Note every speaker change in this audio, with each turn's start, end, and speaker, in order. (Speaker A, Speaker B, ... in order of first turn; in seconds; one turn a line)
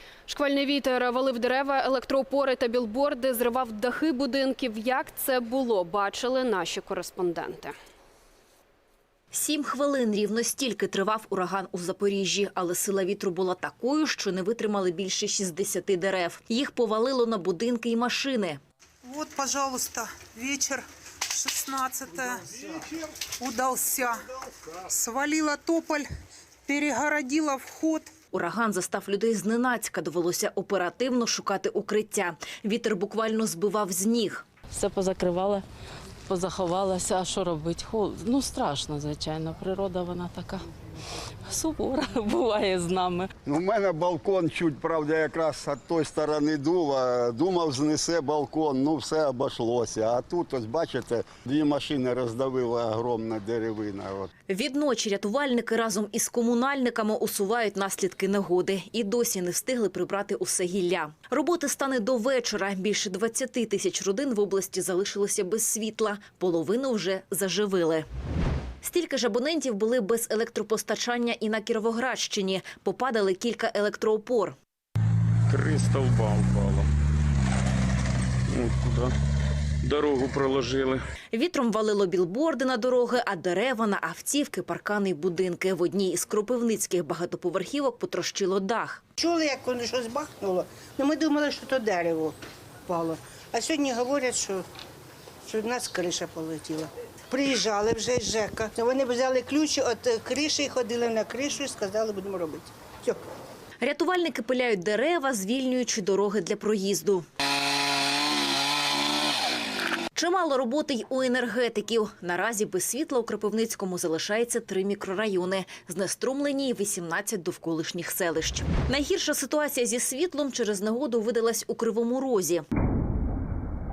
Speaker A: 0.3-7.7
Speaker B: 9.3-18.6
Speaker C: 19.0-22.8
Speaker C: 23.4-24.3
Speaker C: 24.8-26.1
Speaker C: 26.6-28.1
Speaker B: 28.3-34.4
Speaker D: 34.7-35.6
Speaker D: 36.3-40.7
Speaker D: 41.4-43.3
Speaker E: 43.4-54.3
Speaker B: 54.5-68.0
Speaker B: 68.8-74.5
Speaker F: 75.5-76.9
Speaker F: 78.5-79.1
Speaker F: 79.8-81.0
Speaker B: 81.3-89.0
Speaker G: 89.2-94.6
Speaker G: 95.4-103.2
Speaker B: 103.8-107.2
Speaker B: 110.1-122.6